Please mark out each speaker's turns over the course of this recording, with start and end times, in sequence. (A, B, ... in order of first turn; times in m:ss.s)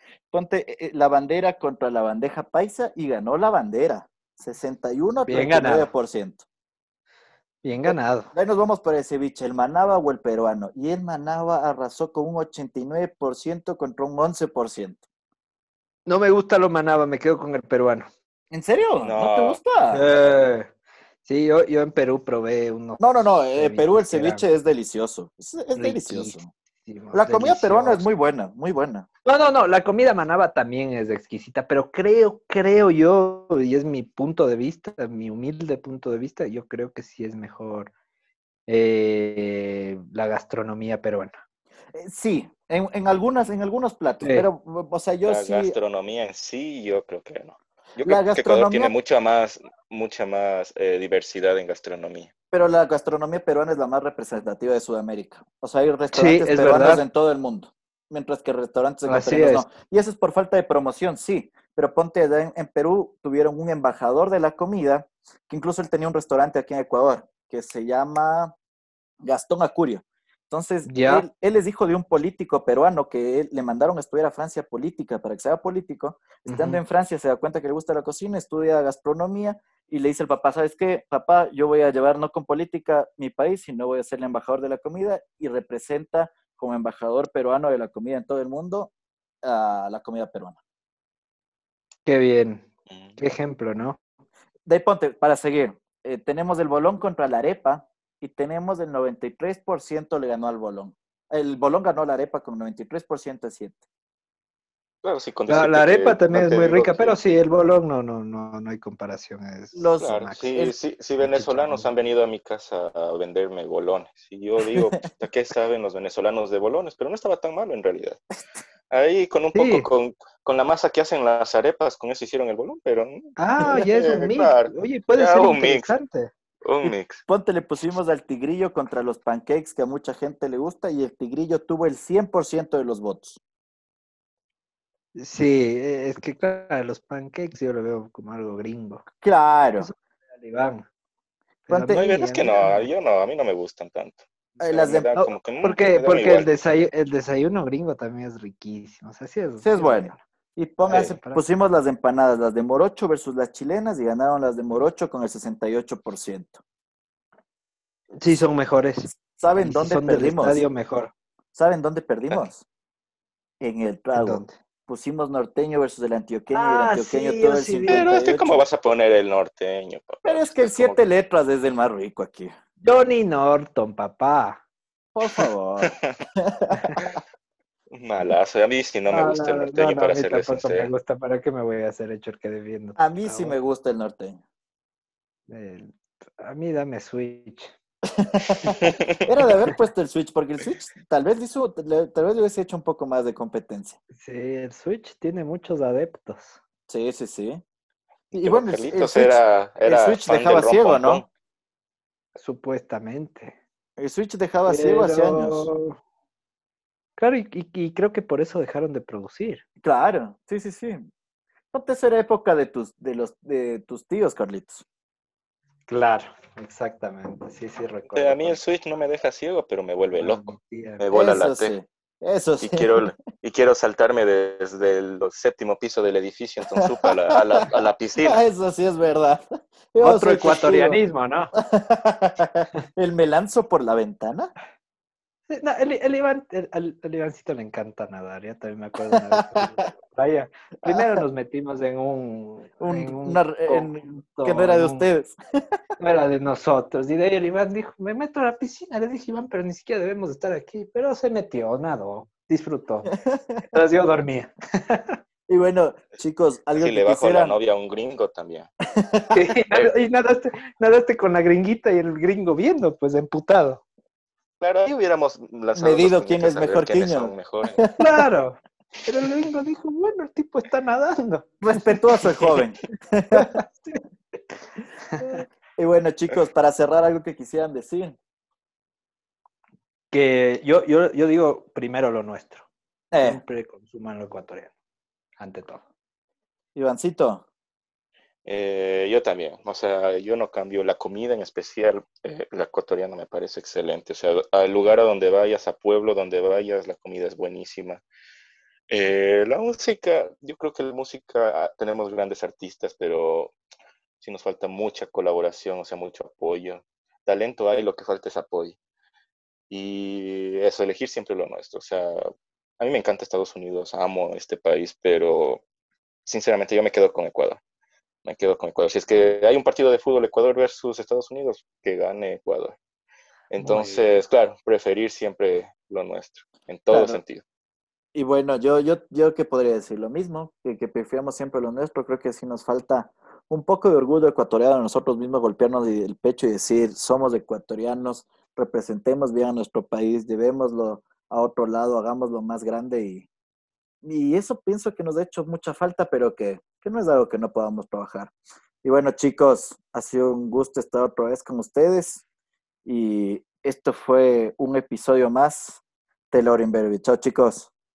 0:00.3-0:06.4 A
0:05.3-0:05.9 B
0:07.6-0:08.3 B
0:07.9-0:15.0 A
0:16.0-0:18.1 B
0:18.5-0:20.0 A
0:19.0-0:19.6 C
0:19.9-0:20.7 B
0:21.2-0:24.4 B
0:23.0-0:26.5 A
0:25.7-0:28.0 B
0:27.1-0:29.1 A
0:29.2-0:37.9 B
0:38.7-0:41.3 B
0:41.9-0:45.8 A
0:44.2-0:44.5 B
0:45.2-0:52.3 C
0:48.0-0:48.9 A
0:52.5-1:08.5 A
0:56.1-0:57.0 B
0:59.0-0:59.6 B
1:09.2-1:28.9 A
1:10.8-1:11.2 B
1:16.4-1:16.8 B
1:29.4-1:30.6 A
1:32.0-1:32.7 B
1:32.9-1:33.2 C
1:33.2-1:34.0 B
1:34.6-1:43.8 A
1:45.0-1:47.4 C
1:45.5-1:50.5 B
1:49.7-1:50.7 A
1:50.0-1:58.2 C
1:51.2-1:51.9 B
1:58.9-2:05.9 C
1:59.5-1:59.9 B
2:03.4-2:06.3 B
2:06.6-2:07.2 C
2:06.8-2:13.4 A
2:15.1-2:19.0 B
2:19.2-2:19.9 A
2:19.8-2:20.8 B
2:21.7-2:22.9 B
2:21.7-2:22.0 A
2:21.9-2:26.5 C
2:24.6-2:25.3 A
2:25.6-2:30.2 B
2:29.6-2:36.6 A
2:30.8-2:31.4 B
2:30.9-2:31.2 C
2:38.2-2:41.1 B
2:39.1-2:40.6 A
2:41.5-2:42.6 A
2:43.6-2:48.6 A
2:44.1-2:44.5 B
2:46.5-2:48.0 B
2:47.9-2:51.0 C
2:50.2-2:52.5 A
2:52.8-2:54.6 B
2:55.1-2:57.0 A
2:55.8-2:56.1 C
2:56.7-2:57.0 B
2:57.9-3:00.9 C
2:59.1-3:03.6 B
3:03.0-3:04.4 A
3:05.5-3:07.7 B
3:08.2-3:08.7 A
3:08.7-3:09.2 C
3:09.2-3:14.0 A
3:14.1-3:16.6 B
3:16.9-3:17.6 A
3:18.3-3:21.2 A
3:18.3-3:21.2 C
3:22.4-3:23.6 B
3:24.0-3:25.7 A
3:24.6-3:26.0 B
3:27.2-3:29.6 B
3:29.8-3:31.0 A
3:31.7-3:34.8 A
3:35.9-3:38.6 B
3:38.1-3:41.7 C
3:40.2-3:41.0 B
3:41.1-3:43.0 A
3:42.6-3:48.4 C
3:46.9-3:47.6 A
3:48.2-3:51.0 A
3:50.0-3:51.5 B
3:51.6-3:54.5 A
3:55.5-4:05.1 B
3:59.1-3:59.6 A
4:00.8-4:01.2 A
4:02.8-4:05.8 A
4:06.0-4:13.1 B
4:13.1-4:13.6 A
4:13.7-4:15.2 B
4:15.5-4:17.6 A
4:16.8-4:18.7 C
4:19.0-4:19.5 A
4:19.3-4:23.8 B
4:24.6-4:27.8 C
4:25.8-4:28.0 A
4:28.0-4:32.0 B
4:31.6-4:33.6 A
4:33.3-4:34.0 B
4:35.2-4:35.4 B
4:35.2-4:38.2 A
4:40.1-4:42.6 B
4:43.1-4:43.4 A
4:43.2-4:44.7 B
4:45.4-4:45.8 B
4:46.7-4:47.4 A
4:48.4-4:58.0 C
4:58.9-5:03.5 C
5:04.2-5:08.8 C
5:09.7-5:12.3 C
5:12.8-5:15.6 C
5:16.2-5:17.6 C
5:18.2-5:22.8 C
5:23.5-5:27.4 C
5:23.6-5:24.2 B
5:26.9-5:27.2 A
5:28.1-5:43.3 A
5:44.0-5:48.3 A
5:48.8-5:52.2 A
5:52.8-5:57.7 A